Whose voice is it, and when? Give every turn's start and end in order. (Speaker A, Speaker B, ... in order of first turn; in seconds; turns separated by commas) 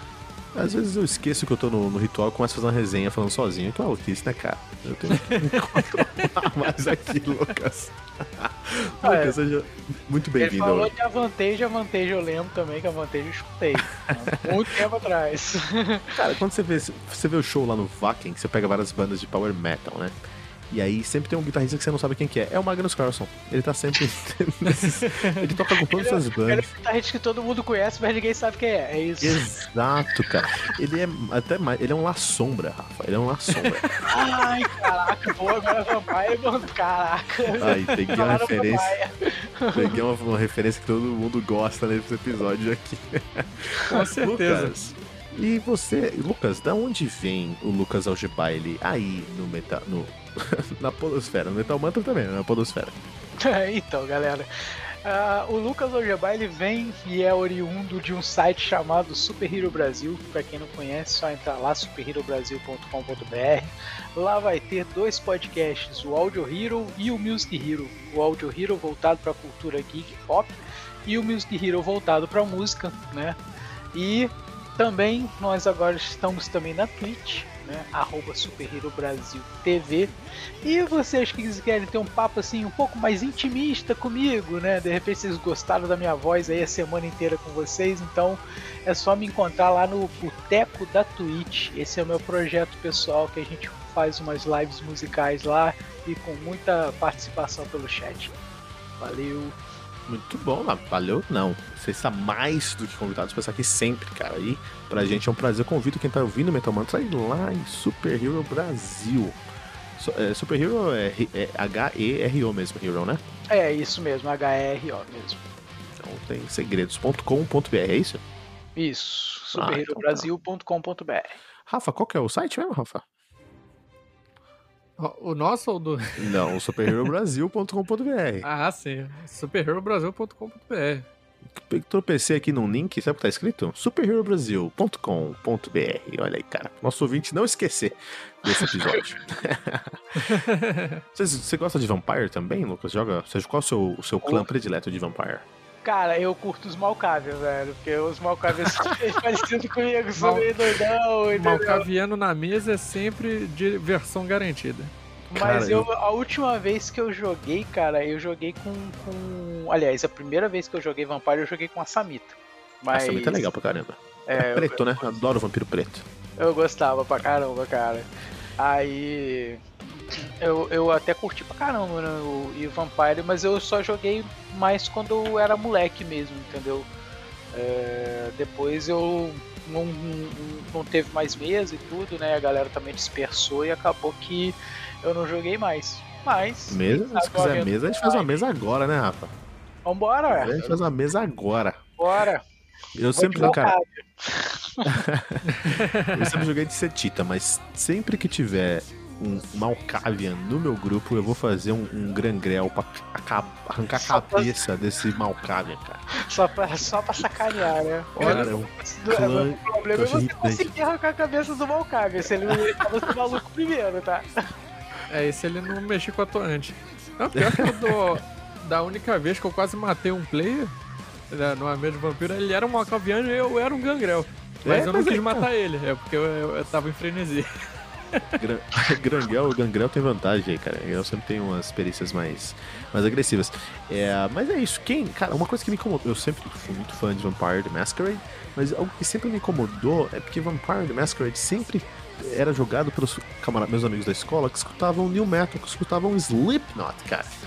Speaker A: 0.5-10.9, Speaker B: 5.4-6.2, Speaker C: 9.0-9.3, Speaker C: 10.4-16.1, Speaker A: 16.2-20.1, Speaker A: 20.7-26.7, Speaker B: 24.7-25.4, Speaker C: 25.9-29.4, Speaker A: 29.2-33.9, Speaker C: 34.1-40.0, Speaker A: 37.6-39.0, Speaker A: 39.7-52.9, Speaker B: 43.9-44.9, Speaker C: 53.4-54.5, Speaker C: 55.0-73.4, Speaker C: 73.9-98.3, Speaker C: 99.0-99.6, Speaker A: 100.1-109.4, Speaker A: 110.0-113.2, Speaker C: 113.5-115.4, Speaker A: 116.0-118.2, Speaker C: 118.8-121.4, Speaker A: 119.5-120.3, Speaker A: 121.7-123.0, Speaker B: 125.0-126.3, Speaker A: 126.2-128.5, Speaker B: 128.4-131.1, Speaker A: 131.6-140.2, Speaker B: 140.2-141.0, Speaker A: 141.1-145.4, Speaker C: 145.8-151.8, Speaker B: 150.2-150.4, Speaker B: 151.3-154.9, Speaker A: 155.3-155.9, Speaker C: 155.3-163.5, Speaker A: 162.9-166.1, Speaker C: 164.3-165.0, Speaker C: 166.4-176.9, Speaker C: 177.5-188.4, Speaker A: 186.7-189.3, Speaker C: 189.8-190.8, Speaker A: 190.3-191.8, Speaker C: 192.0-192.4, Speaker A: 192.9-193.8, Speaker C: 193.1-194.9, Speaker A: 195.1-195.4, Speaker B: 195.5-196.4, Speaker A: 196.1-206.0, Speaker C: 203.9-204.6, Speaker C: 206.2-214.3, Speaker A: 208.1-210.7, Speaker B: 208.2-208.5, Speaker B: 215.1-220.7, Speaker B: 221.3-227.5, Speaker A: 224.6-225.5, Speaker B: 228.1-228.4, Speaker A: 228.4-247.3